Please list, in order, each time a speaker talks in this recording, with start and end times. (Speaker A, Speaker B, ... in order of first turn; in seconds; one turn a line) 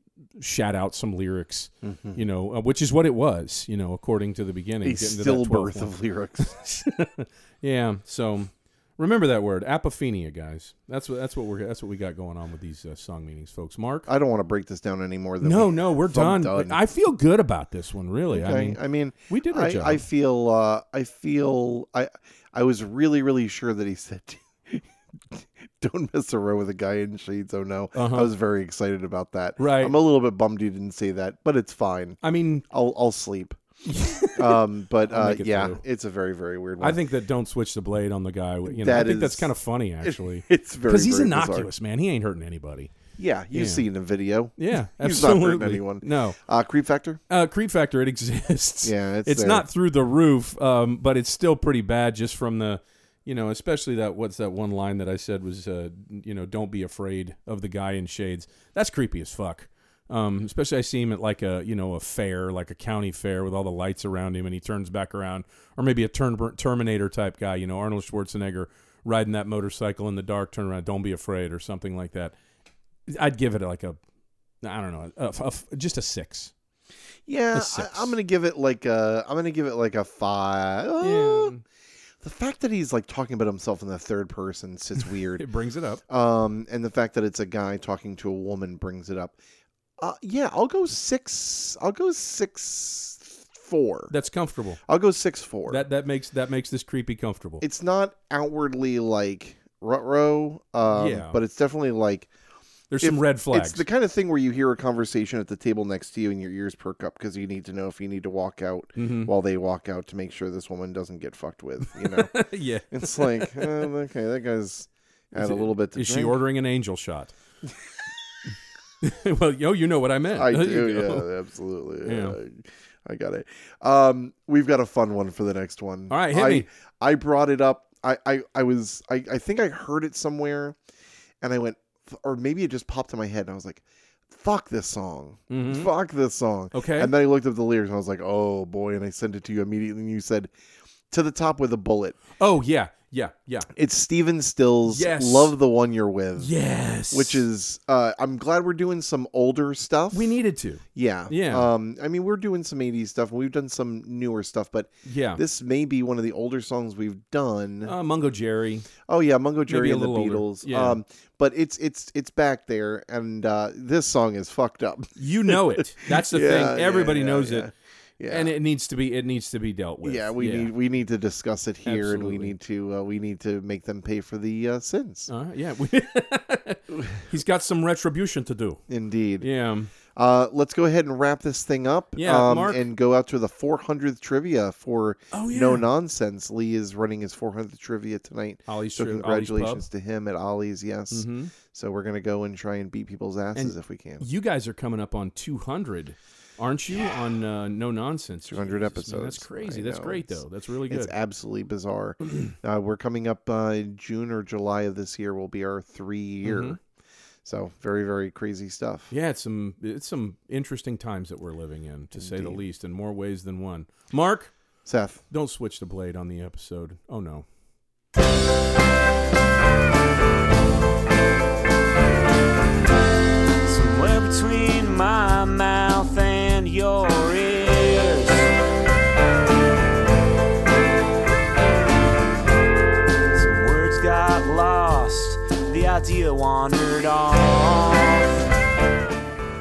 Speaker A: 0.4-14.1
Speaker B: 1.8-2.2
Speaker B: 4.8-6.6
Speaker B: 14.1-16.8
Speaker A: 15.4-20.0
Speaker B: 18.3-33.6
Speaker A: 27.9-28.3
Speaker A: 29.6-30.0
Speaker A: 32.2-32.6
Speaker A: 33.9-35.8
Speaker B: 34.3-37.0
Speaker A: 36.8-42.9
Speaker B: 38.7-41.7
Speaker B: 43.2-47.2
Speaker A: 43.5-43.8
Speaker A: 44.6-46.4
Speaker A: 47.3-72.3
Speaker B: 48.8-49.7
Speaker A: 73.1-74.0
Speaker A: 74.6-76.5
Speaker B: 77.3-81.5
Speaker A: 77.5-78.2
Speaker A: 81.0-81.6
Speaker B: 82.2-85.5
Speaker A: 85.0-86.0
Speaker B: 86.1-89.4
Speaker B: 90.0-94.1
Speaker A: 94.1-94.8
Speaker B: 94.9-95.8
Speaker A: 95.7-97.6
Speaker B: 97.6-102.3
Speaker A: 100.9-101.4
Speaker A: 102.9-103.8
Speaker B: 103.0-116.4
Speaker A: 109.0-109.3
Speaker A: 112.0-113.9
Speaker A: 115.3-117.3
Speaker A: 119.0-121.3
Speaker B: 120.3-130.8
Speaker A: 122.0-122.4
Speaker A: 126.1-126.7
Speaker B: 131.4-140.5
Speaker A: 135.5-135.9
Speaker A: 136.7-137.1
Speaker B: 141.1-142.2
Speaker A: 142.4-143.7
Speaker B: 143.7-146.5
Speaker A: 144.9-145.5
Speaker A: 146.4-147.5
Speaker B: 147.1-150.3
Speaker A: 150.1-151.7
Speaker B: 150.9-157.9
Speaker A: 155.1-155.4
Speaker A: 157.8-158.9
Speaker B: 159.1-168.5
Speaker A: 159.7-161.0
Speaker A: 165.2-167.7
Speaker A: 168.3-170.7
Speaker B: 170.0-175.3
Speaker A: 171.8-172.5
Speaker A: 175.3-178.8
Speaker B: 178.9-179.5
Speaker A: 179.4-179.9
Speaker B: 180.1-194.3
Speaker A: 182.2-182.9
Speaker A: 185.3-185.9
Speaker A: 188.7-189.9
Speaker A: 191.1-191.5
Speaker A: 193.6-201.2
Speaker B: 198.5-206.8
Speaker A: 206.4-206.8
Speaker B: 207.4-209.1
Speaker A: 209.1-214.5
Speaker B: 212.1-212.6
Speaker B: 214.8-215.2
Speaker A: 215.3-217.5
Speaker C: 223.7-228.5
Speaker C: 233.3-238.4